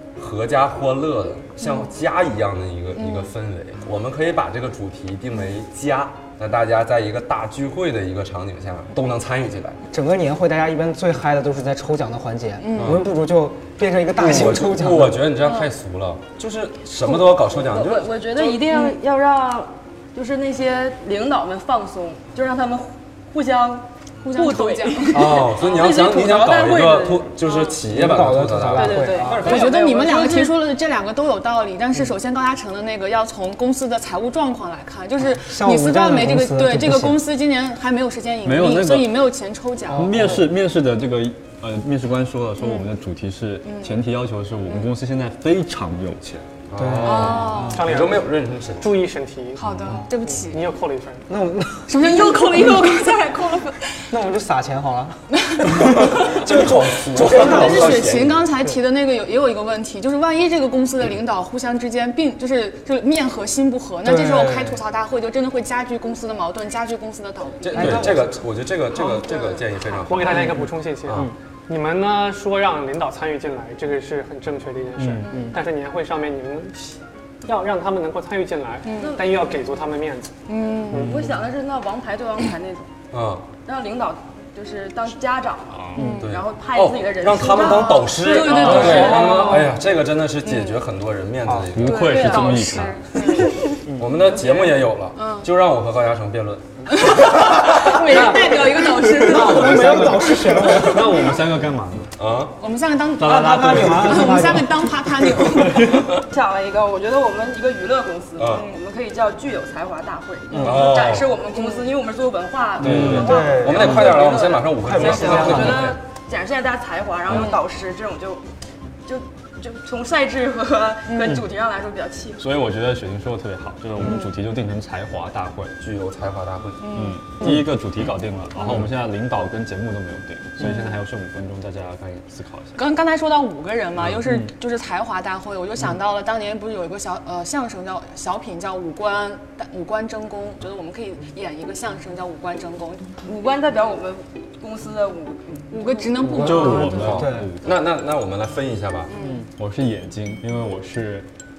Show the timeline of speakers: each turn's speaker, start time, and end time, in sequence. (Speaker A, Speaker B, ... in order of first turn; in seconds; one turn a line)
Speaker A: 0.2-9.8
Speaker B: 1.6-1.9
Speaker B: 3.0-3.3
Speaker C: 9.9-15.3
Speaker B: 12.6-13.1
Speaker A: 12.7-13.1
Speaker A: 14.1-18.2
Speaker B: 15.4-15.7
Speaker D: 17.0-27.7
Speaker B: 18.5-19.0
Speaker B: 24.2-25.5
Speaker A: 25.1-29.5
Speaker C: 27.9-29.5
Speaker D: 28.7-30.6
Speaker B: 29.2-40.2
Speaker C: 35.4-37.2
Speaker E: 38.4-39.3
Speaker C: 39.9-40.5
Speaker E: 39.9-46.5
Speaker B: 42.6-42.9
Speaker B: 43.6-44.0
Speaker A: 46.7-49.0
Speaker C: 46.8-47.8
Speaker B: 47.0-47.9
Speaker F: 47.7-49.6
Speaker B: 49.5-50.6
Speaker F: 50.4-51.3
Speaker C: 51.3-52.3
Speaker B: 51.9-54.0
Speaker C: 54.1-58.2
Speaker B: 55.4-56.1
Speaker A: 55.7-58.5
Speaker B: 57.2-68.2
Speaker C: 64.0-64.8
Speaker A: 67.6-71.3
Speaker C: 67.7-68.4
Speaker B: 68.9-70.5
Speaker F: 70.1-80.4
Speaker B: 75.2-75.6
Speaker C: 75.2-75.5
Speaker B: 78.9-79.2
Speaker D: 79.0-79.2
Speaker B: 80.5-81.2
Speaker D: 80.9-82.9
Speaker A: 83.1-83.5
Speaker D: 83.7-89.7
Speaker B: 86.0-86.3
Speaker C: 86.0-86.2
Speaker A: 86.2-92.2
Speaker B: 88.2-89.8
Speaker E: 88.7-89.1
Speaker B: 90.4-90.8
Speaker C: 91.5-91.7
Speaker E: 91.7-93.0
Speaker B: 91.8-93.8
Speaker D: 92.0-93.5
Speaker A: 94.0-97.2
Speaker D: 94.2-94.9
Speaker B: 95.2-95.5
Speaker B: 96.9-100.1
Speaker D: 97.8-99.3
Speaker C: 99.2-101.3
Speaker E: 99.3-102.1
Speaker A: 99.4-99.7
Speaker A: 102.2-102.6
Speaker B: 102.6-106.2
Speaker E: 103.2-104.6
Speaker C: 103.2-104.9
Speaker E: 105.5-106.0
Speaker D: 105.8-118.4
Speaker A: 108.4-108.7
Speaker B: 110.6-110.9
Speaker A: 110.6-111.3
Speaker B: 111.6-111.8
Speaker A: 112.8-116.0
Speaker E: 112.8-113.3
Speaker C: 113.2-114.2
Speaker C: 114.8-115.8
Speaker B: 117.3-117.6
Speaker D: 119.0-122.5
Speaker B: 121.1-121.4
Speaker E: 122.4-125.8
Speaker A: 125.8-126.9
Speaker B: 126.8-127.4
Speaker E: 126.9-132.8
Speaker B: 130.6-130.9
Speaker B: 132.8-143.1
Speaker D: 143.2-146.0
Speaker B: 145.7-147.3
Speaker C: 146.3-147.5
Speaker E: 146.3-147.8
Speaker A: 146.4-149.1
Speaker E: 149.6-151.3